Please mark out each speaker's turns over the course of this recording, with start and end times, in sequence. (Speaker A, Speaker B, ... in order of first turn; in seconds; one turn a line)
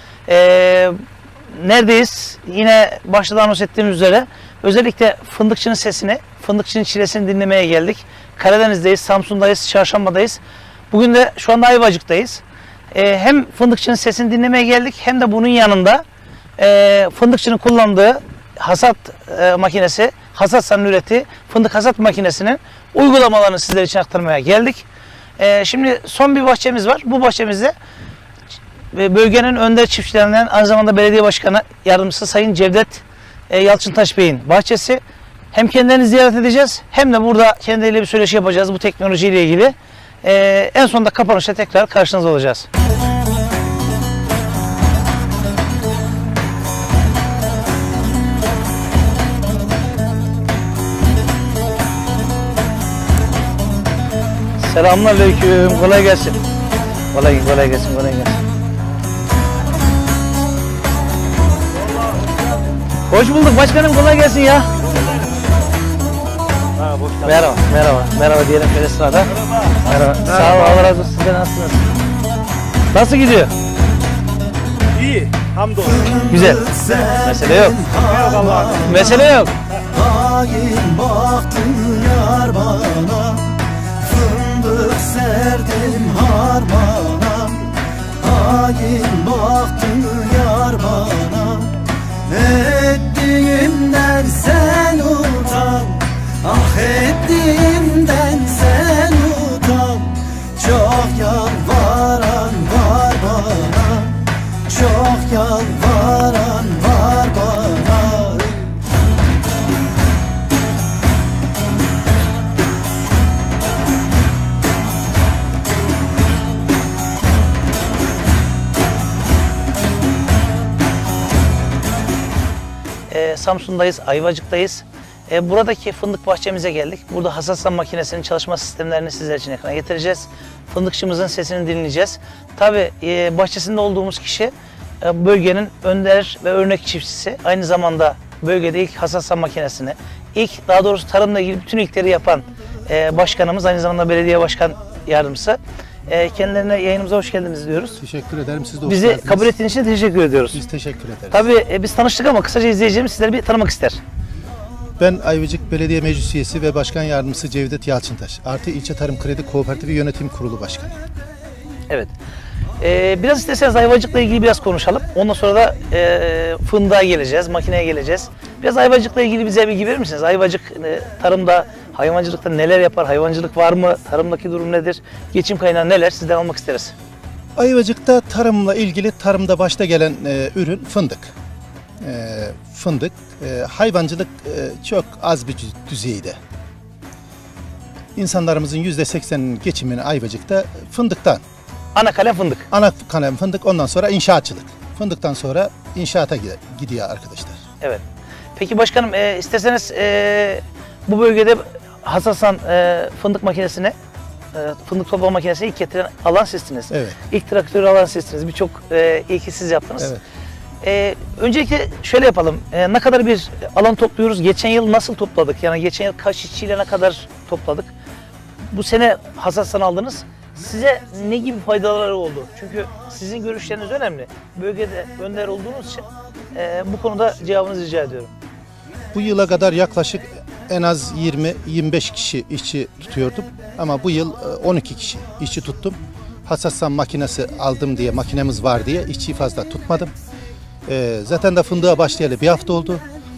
Speaker A: 0.3-1.0
Speaker A: 1.5-16.0
Speaker A: 16.6-24.8
Speaker A: 25.4-27.7
Speaker A: 28.9-42.7
Speaker A: 54.6-56.4
Speaker A: 57.1-58.4
Speaker A: 63.1-64.7
Speaker A: 67.2-71.9
Speaker A: 72.9-73.5
Speaker B: 75.8-76.2
Speaker A: 76.2-77.8
Speaker B: 77.9-78.8
Speaker C: 77.9-78.6
Speaker A: 78.7-79.5
Speaker C: 80.0-83.1
Speaker B: 80.2-83.4
Speaker B: 84.1-87.6
Speaker C: 85.4-86.1
Speaker B: 88.2-91.7
Speaker C: 88.6-89.0
Speaker B: 92.3-104.1
Speaker B: 104.7-108.6
Speaker A: 123.1-148.0
Speaker C: 148.0-149.5
Speaker A: 148.8-150.6
Speaker C: 150.5-151.4
Speaker A: 151.3-154.0
Speaker C: 155.0-161.0
Speaker A: 162.8-176.9
Speaker C: 177.6-181.3
Speaker C: 182.0-186.4
Speaker C: 188.2-191.4
Speaker A: 191.9-192.7
Speaker C: 192.7-197.6
Speaker A: 198.6-203.9
Speaker A: 204.5-210.1
Speaker C: 206.9-207.2
Speaker A: 210.8-217.9
Speaker A: 218.7-228.3
Speaker C: 229.1-240.1
Speaker C: 240.8-243.0